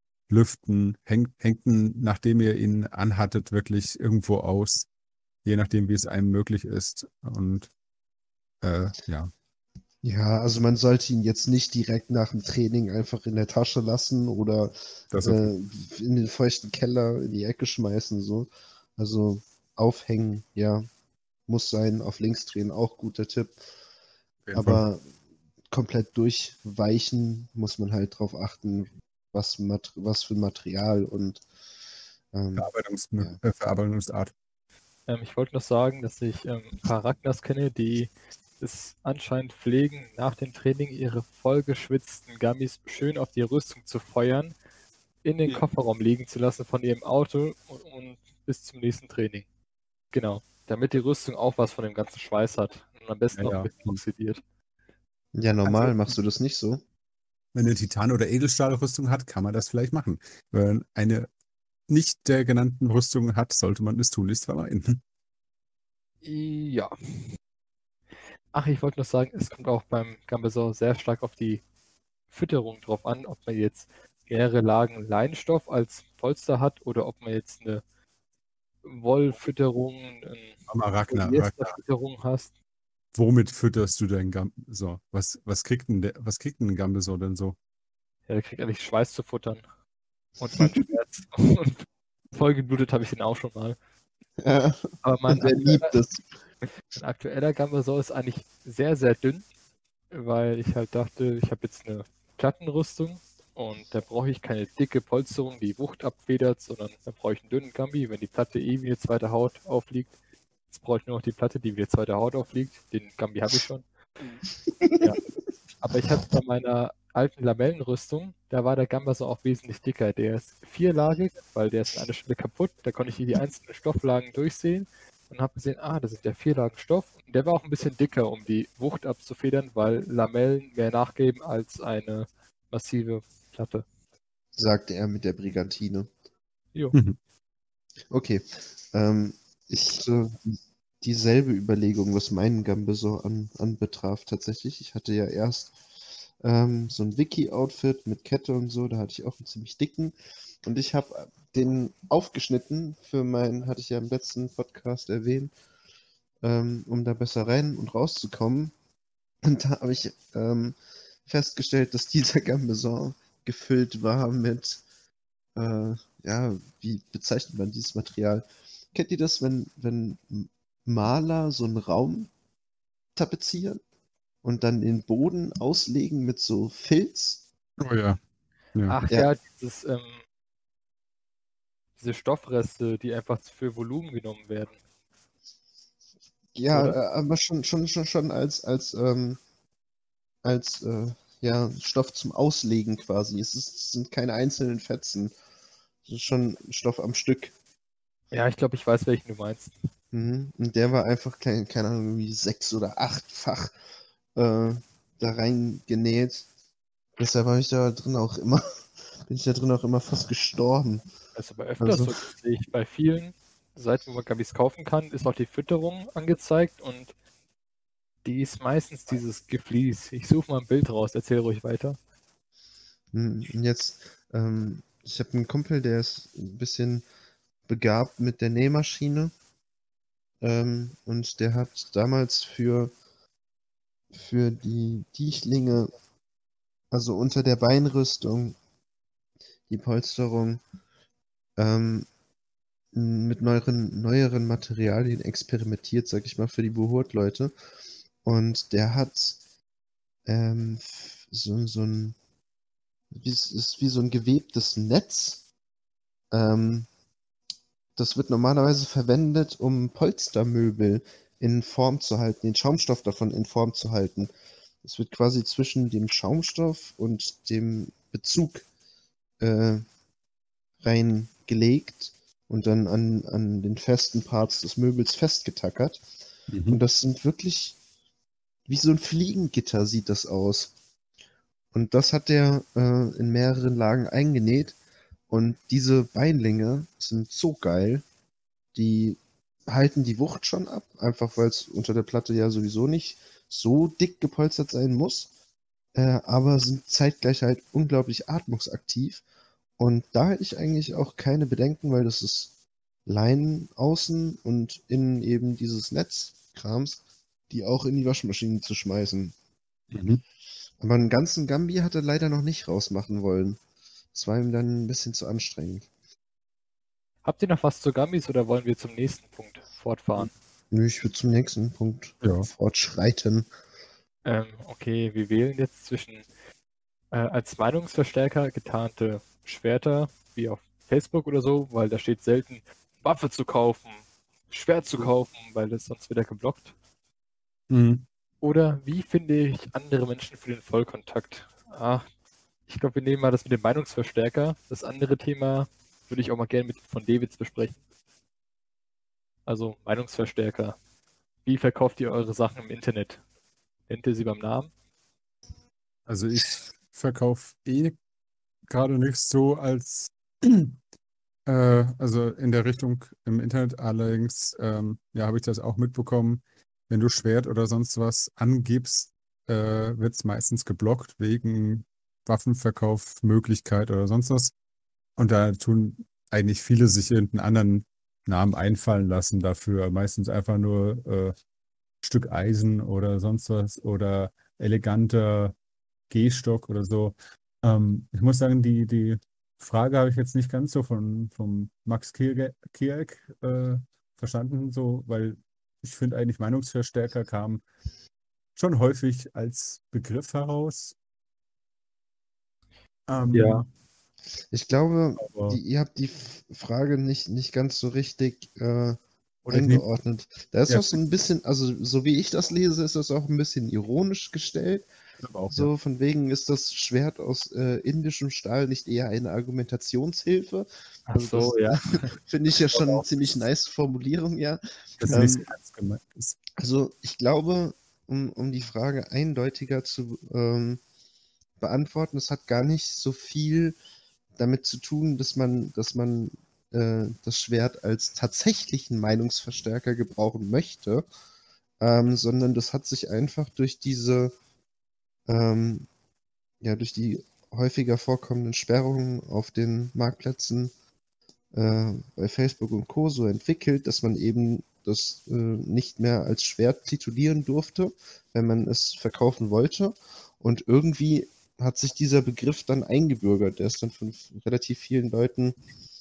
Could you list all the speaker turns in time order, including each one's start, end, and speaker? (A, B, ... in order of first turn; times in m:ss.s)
0:00.3-0:04.9 A
0:05.4-0:07.7 A
0:08.6-0:09.3 A
0:10.0-0:20.9 B
0:15.1-0:15.5 A
0:21.5-0:23.6 B
0:24.5-0:24.8 A
0:24.5-0:25.0 B
0:25.7-0:31.4 B
0:32.3-0:33.4 B
0:32.6-0:34.3 A
0:35.1-0:44.6 C
0:45.2-0:49.4 C
0:50.1-0:54.4 C
0:53.3-0:54.0 A
0:55.3-0:56.8 B
0:57.6-1:01.3 A
1:01.9-1:05.0 A
1:06.2-1:07.4 C
1:08.5-1:11.6 C
1:12.3-1:17.8 C
1:18.8-1:20.6 C
1:20.7-1:21.8 A
1:21.1-1:22.5 C
1:23.1-1:27.6 A
1:28.3-1:29.6 C
1:30.4-1:33.8 C
1:34.4-1:36.2 B
1:35.0-1:36.0 C
1:36.8-1:39.4 C
1:40.1-1:50.1 C
1:50.7-1:53.8 C
1:54.7-1:55.0 B
1:55.8-2:13.8 C
2:14.6-2:16.1 B
2:18.1-2:25.8 B
2:26.4-2:35.5 B
2:36.4-2:38.7 B
2:39.4-2:44.8 B
2:45.6-2:52.3 B
2:53.2-2:53.8 B
2:54.4-2:57.4 B
2:57.8-2:58.2 A
2:58.9-3:00.2 C
3:02.0-3:04.8 C
3:06.6-3:09.4 B
3:06.7-3:07.0 C
3:10.4-3:15.4 B
3:16.0-3:17.5 B
3:18.3-3:19.8 C
3:20.1-3:23.8 B
3:24.4-3:26.5 B
3:27.2-3:31.1 B
3:31.4-3:37.1 C
3:31.8-3:32.1 B
3:38.2-3:42.0 C
3:43.1-3:47.0 B
3:47.7-3:49.3 B
3:50.4-3:52.9 B
3:54.1-3:55.9 B
3:56.9-3:58.6 B
3:59.7-4:00.6 B
4:01.6-4:02.1 B
4:02.9-4:07.5 B
4:08.2-4:09.4 B
4:10.3-4:12.2 B
4:13.1-4:15.4 B
4:16.3-4:16.9 B
4:18.0-4:28.6 B
4:29.4-4:29.8 B
4:30.8-4:36.0 B
4:36.5-4:36.8 A
4:36.7-4:37.8 B
4:38.7-4:40.7 B
4:41.7-4:44.8 B
4:45.3-4:48.0 B
4:48.7-4:55.3 B
4:56.0-4:59.2 B
4:59.8-5:02.5 B
5:03.1-5:09.4 B
5:09.9-5:10.2 A
5:10.8-5:13.6 B
5:14.1-5:15.9 B
5:17.2-5:20.3 C
5:20.7-5:23.5 B
5:22.2-5:22.5 A
5:24.2-5:26.2 C
5:27.1-5:36.7 C
5:37.7-5:38.0 A
5:38.4-5:42.1 C
5:42.7-5:47.8 C
5:49.5-5:50.8 C
5:51.4-5:53.2 C
5:53.9-5:54.7 C
5:56.1-5:58.0 A
5:58.7-6:00.8 A
6:01.5-6:14.5 A
6:15.2-6:21.3 A
6:22.0-6:25.5 A
6:26.1-6:37.6 A
6:38.6-6:41.0 A
6:43.1-6:43.7 A
6:43.3-6:43.6 C
6:44.5-6:54.9 B
6:45.2-6:45.6 A
6:49.5-6:49.8 A
6:50.7-6:51.0 A
6:55.2-6:55.7 A
6:55.5-7:01.6 B
7:01.1-7:02.1 C
7:02.2-7:05.4 B
7:05.0-7:06.4 A
7:06.6-7:10.8 B
7:11.6-7:13.8 B
7:14.4-7:21.0 B
7:21.8-7:24.3 B
7:25.3-7:25.9 B
7:26.6-7:30.7 B
7:31.5-7:45.6 B